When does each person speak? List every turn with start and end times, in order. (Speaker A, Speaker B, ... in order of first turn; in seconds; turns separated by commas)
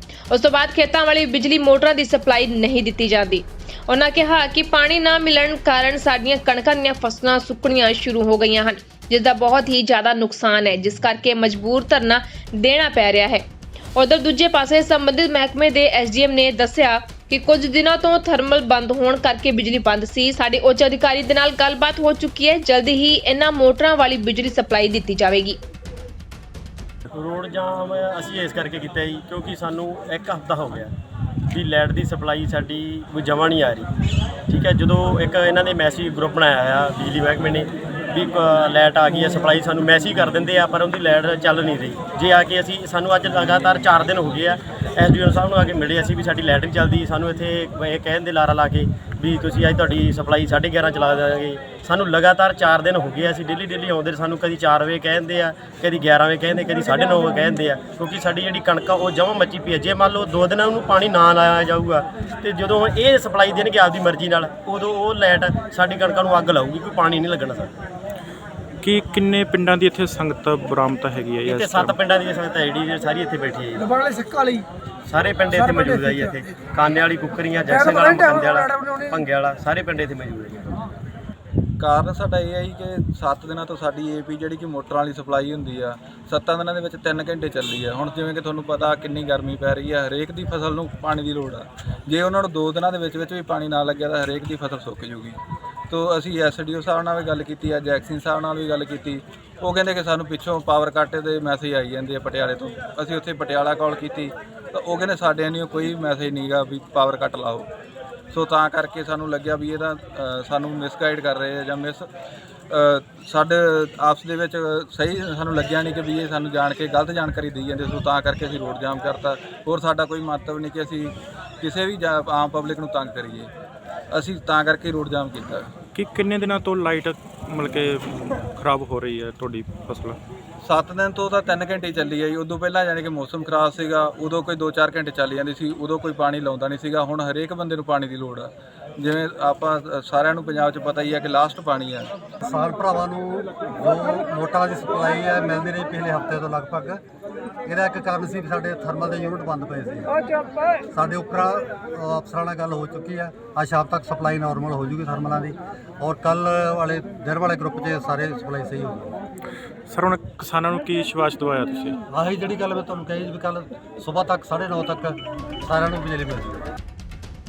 Speaker A: 0.3-13.4, Speaker A: 13.9-25.6, Speaker B: 27.1-30.9, Speaker B: 31.5-33.9, Speaker B: 34.5-67.7, Speaker C: 68.8-72.0, Speaker B: 71.4-74.5, Speaker B: 75.1-80.8, Speaker D: 81.8-107.7, Speaker D: 108.3-112.1, Speaker D: 112.7-123.5, Speaker D: 124.1-125.7, Speaker C: 125.9-130.2, Speaker D: 130.6-142.1, Speaker E: 142.4-147.0, Speaker E: 147.7-150.2, Speaker E: 150.9-159.2, Speaker C: 159.9-162.0, Speaker E: 162.1-166.7